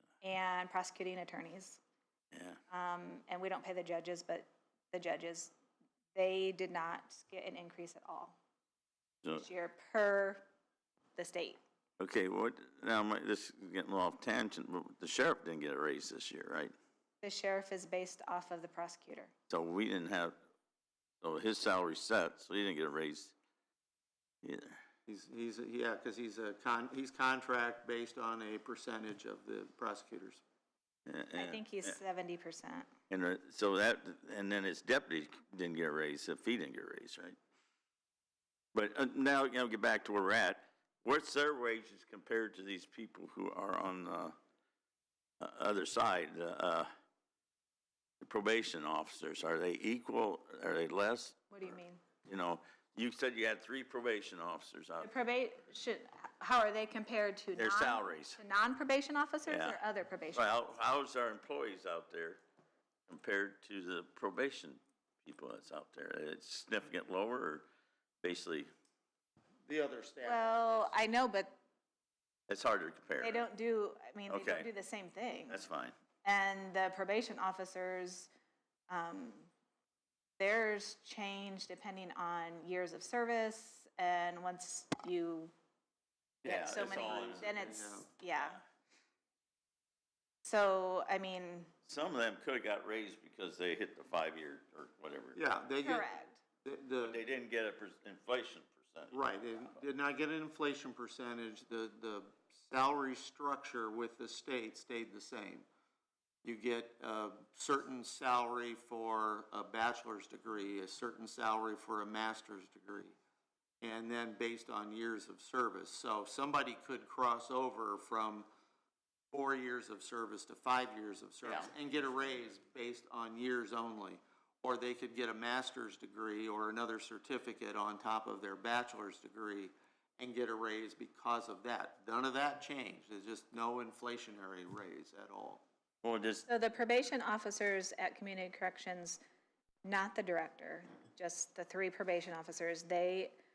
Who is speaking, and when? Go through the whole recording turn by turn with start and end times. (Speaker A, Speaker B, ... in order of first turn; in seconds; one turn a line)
Speaker A: 0.2-1.8
Speaker B: 2.3-2.6
Speaker A: 2.7-5.5
Speaker A: 6.1-8.4
Speaker A: 9.3-10.4
Speaker A: 11.2-11.6
Speaker B: 12.0-16.7
Speaker A: 17.2-19.3
Speaker B: 19.5-20.3
Speaker B: 21.2-23.3
Speaker B: 24.4-24.8
Speaker C: 25.1-30.4
Speaker B: 31.1-31.9
Speaker A: 31.4-32.9
Speaker B: 33.1-37.4
Speaker B: 38.7-44.4
Speaker B: 45.4-46.9
Speaker B: 48.2-51.7
Speaker A: 51.5-52.0
Speaker B: 52.2-55.1
Speaker A: 55.0-60.6
Speaker B: 57.5-58.4
Speaker B: 59.5-59.8
Speaker B: 60.3-62.4
Speaker B: 63.1-67.7
Speaker B: 68.2-68.7
Speaker C: 69.7-71.1
Speaker A: 70.2-71.5
Speaker B: 72.5-73.5
Speaker A: 73.2-75.6
Speaker B: 74.3-74.7
Speaker B: 75.5-75.9
Speaker A: 76.2-78.3
Speaker A: 78.9-79.5
Speaker A: 80.4-85.5
Speaker B: 86.4-87.5
Speaker A: 86.4-88.6
Speaker C: 86.6-88.0
Speaker A: 90.4-91.7
Speaker B: 91.8-95.4
Speaker C: 95.3-96.1
Speaker A: 95.8-96.4
Speaker C: 96.6-97.2
Speaker B: 97.0-99.2
Speaker C: 99.1-105.7
Speaker C: 106.4-113.1
Speaker C: 113.8-118.5
Speaker C: 119.3-135.6
Speaker B: 121.4-121.7
Speaker B: 136.0-136.4
Speaker A: 136.5-139.2
Speaker A: 139.8-143.3